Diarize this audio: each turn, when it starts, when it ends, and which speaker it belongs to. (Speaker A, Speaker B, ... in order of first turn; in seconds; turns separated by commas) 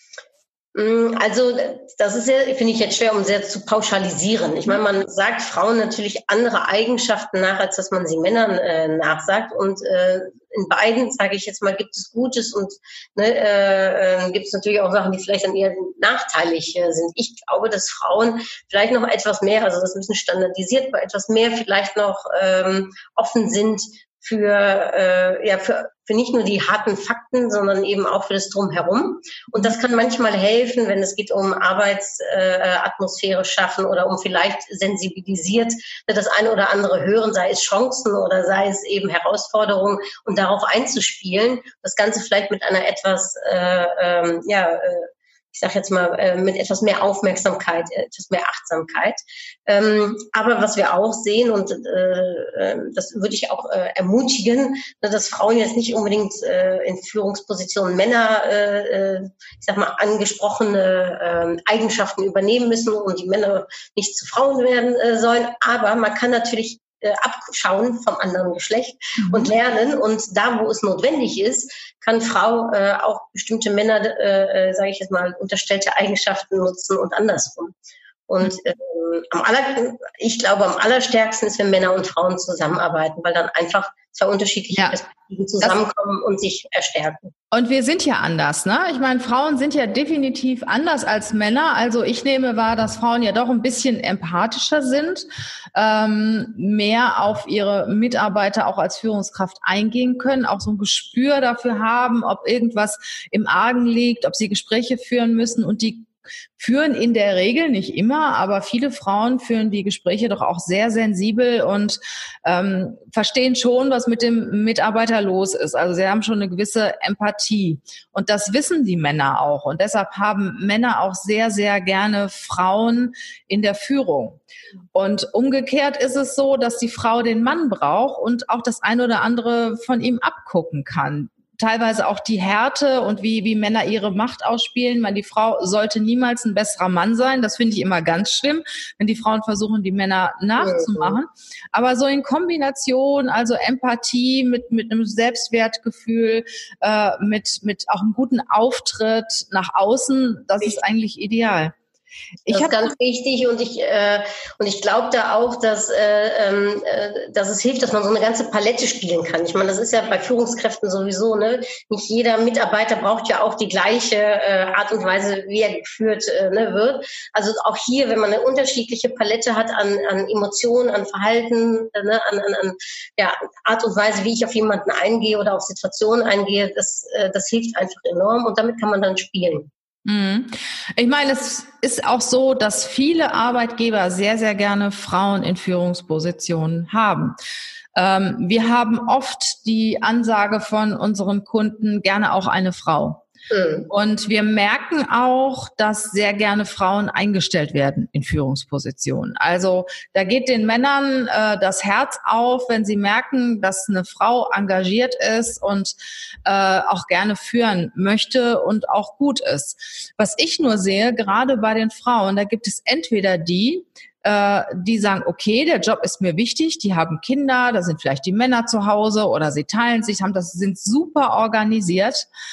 Speaker A: 0.7-77.7, Speaker B: 69.2-69.5, Speaker A: 78.3-87.3, Speaker B: 84.7-85.0, Speaker B: 87.5-124.4, Speaker B: 124.9-151.8, Speaker A: 140.6-141.2, Speaker B: 152.4-152.9, Speaker A: 152.5-179.7, Speaker B: 180.0-187.3, Speaker B: 187.9-193.3, Speaker A: 193.5-193.9, Speaker B: 193.9-222.3